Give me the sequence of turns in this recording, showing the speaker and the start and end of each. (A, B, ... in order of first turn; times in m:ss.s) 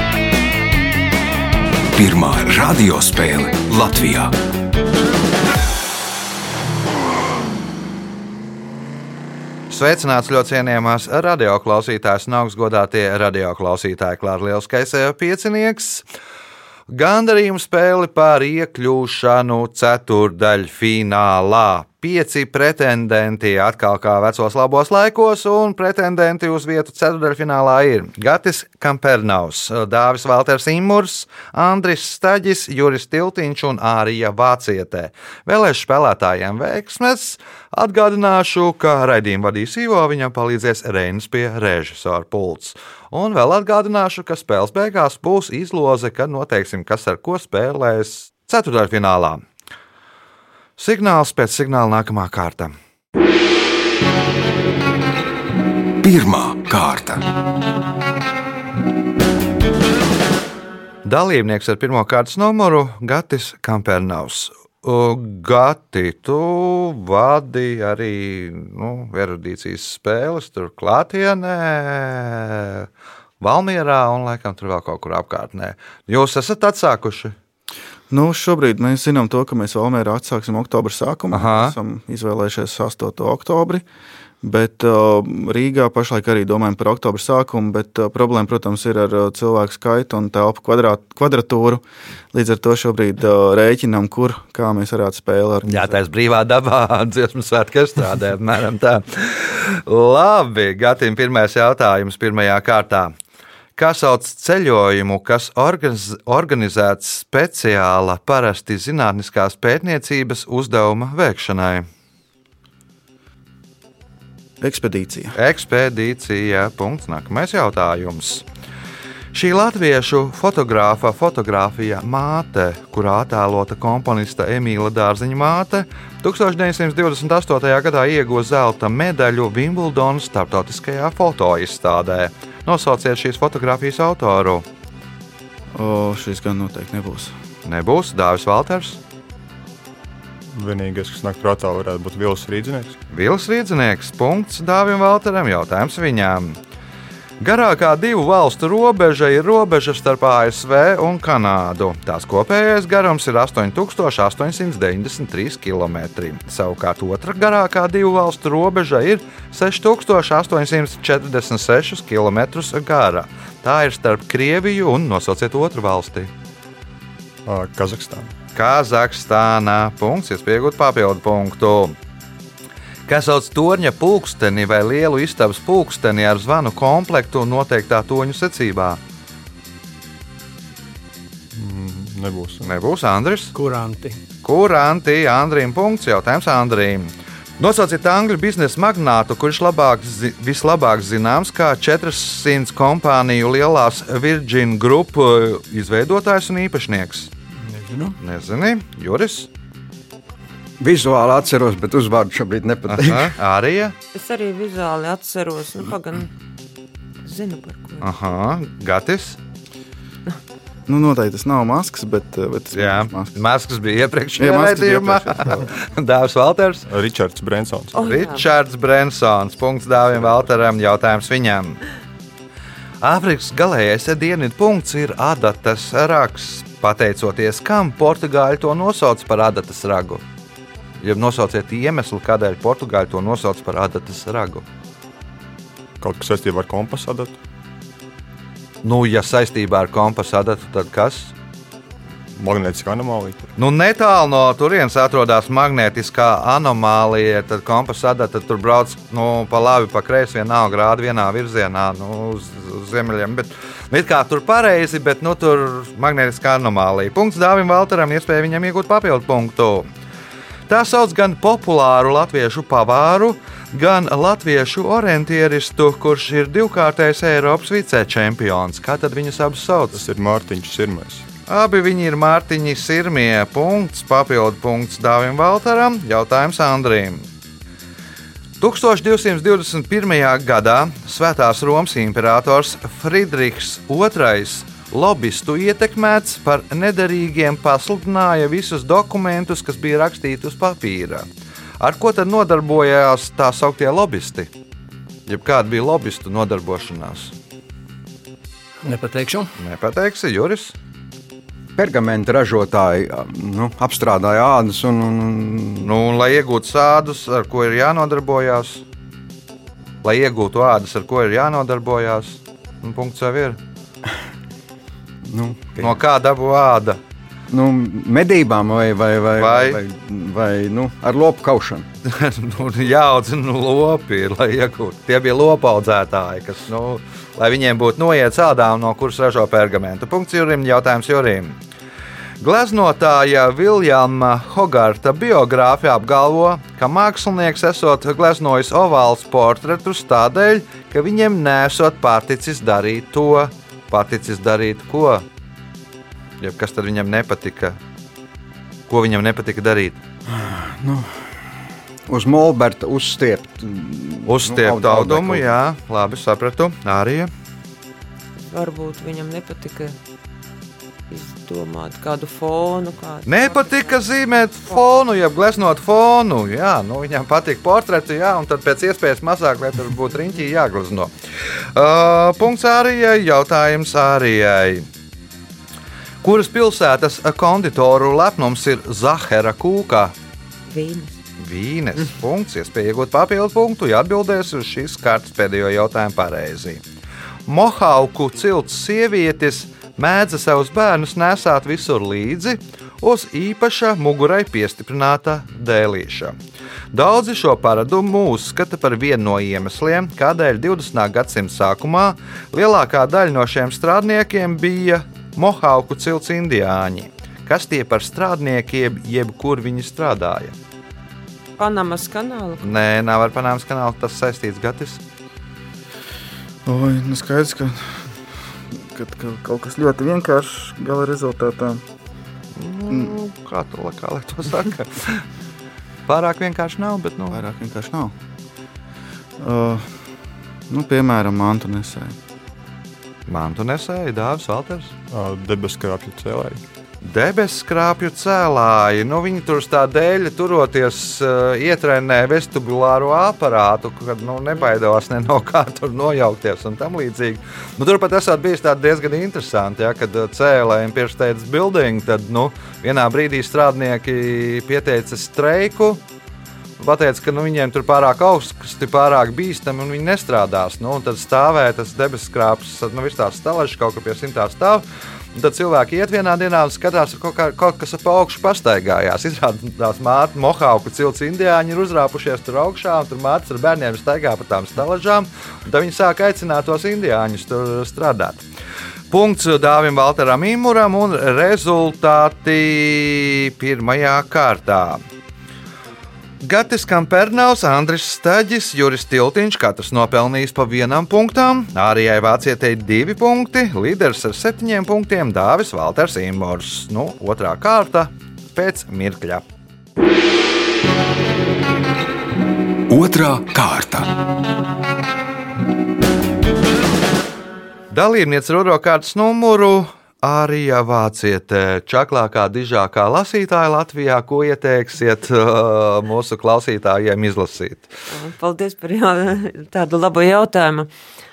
0:01.9-0:04.4 A
0:09.7-0:16.0 B
0:16.9-0:49.4 B
0:50.8-0:52.7 B
0:56.0-0:57.2 A
1:01.0-1:12.9 B
1:13.4-1:17.4 B
1:18.1-1:23.8 C
1:21.3-1:21.7 B
1:24.4-1:35.9 C
1:35.6-1:43.1 B
1:43.8-1:51.9 B
1:54.6-1:55.4 C
1:55.3-1:58.4 B
1:59.3-2:14.6 B
2:15.7-2:17.3 C
2:17.6-2:19.0 B
2:20.5-2:23.0 D
2:23.1-2:26.6 B
2:27.4-2:46.3 B
2:47.4-2:48.3 D
2:48.5-2:51.9 B
2:53.1-2:59.0 B
3:01.5-3:02.7 D
3:02.6-3:03.5 B
3:03.5-3:04.2 E
3:04.4-3:17.3 B
3:17.6-3:18.2 E
3:18.2-3:19.5 B
3:20.8-3:23.3 F
3:22.9-3:24.0 B
3:24.1-3:26.3 G
3:27.2-3:28.1 G
3:28.0-3:29.4 B
3:30.9-3:33.4 C
3:32.7-3:36.8 B
3:34.4-3:35.7 C
3:36.9-3:38.0 D
3:37.9-3:38.4 G
3:38.0-3:41.8 B
3:43.0-3:50.2 B
3:51.0-3:54.6 B
3:56.0-3:57.4 D
3:58.8-4:01.3 B
4:02.3-4:03.5 D
4:03.6-4:19.9 B
4:20.7-4:30.0 B
4:29.9-4:31.2 D
4:31.5-4:37.2 B
4:38.6-4:51.3 B
4:51.8-4:54.5 B
4:55.3-4:57.3 B
4:58.8-4:59.5 E
4:59.6-5:00.7 B
5:01.8-5:05.9 F
5:05.8-5:08.8 B
5:10.0-5:13.6 B
5:15.2-5:16.0 F
5:15.8-5:17.0 B
5:17.5-5:21.8 F
5:19.4-5:19.8 B
5:22.0-5:31.6 B
5:32.4-5:45.2 B
5:46.4-5:47.8 B
5:48.9-5:50.0 B
5:50.3-5:51.3 F
5:52.1-5:55.5 F
5:54.2-5:57.3 B
5:58.5-6:00.0 G
6:01.1-6:04.0 G
6:03.2-6:11.1 B
6:11.7-6:14.9 B
6:16.2-6:20.1 B
6:20.7-6:21.2 G
6:21.4-6:26.8 B
6:27.5-6:36.4 B
6:36.9-6:50.5 B
6:51.6-6:52.8 G
6:52.6-6:55.0 B
6:56.6-6:58.0 C
6:58.7-7:01.8 C
7:02.6-7:05.2 B
7:02.9-7:03.2 C
7:06.1-7:07.4 B
7:07.3-7:08.1 C
7:09.4-7:10.0 C
7:10.7-7:12.2 C
7:13.3-7:14.9 B
7:15.1-7:16.6 D
7:17.0-7:36.0 B
7:36.8-7:58.4 B
7:59.1-8:05.0 B
8:06.4-8:19.4 B
8:22.9-8:24.1 A
8:27.9-8:37.9 B
8:38.1-8:40.9 G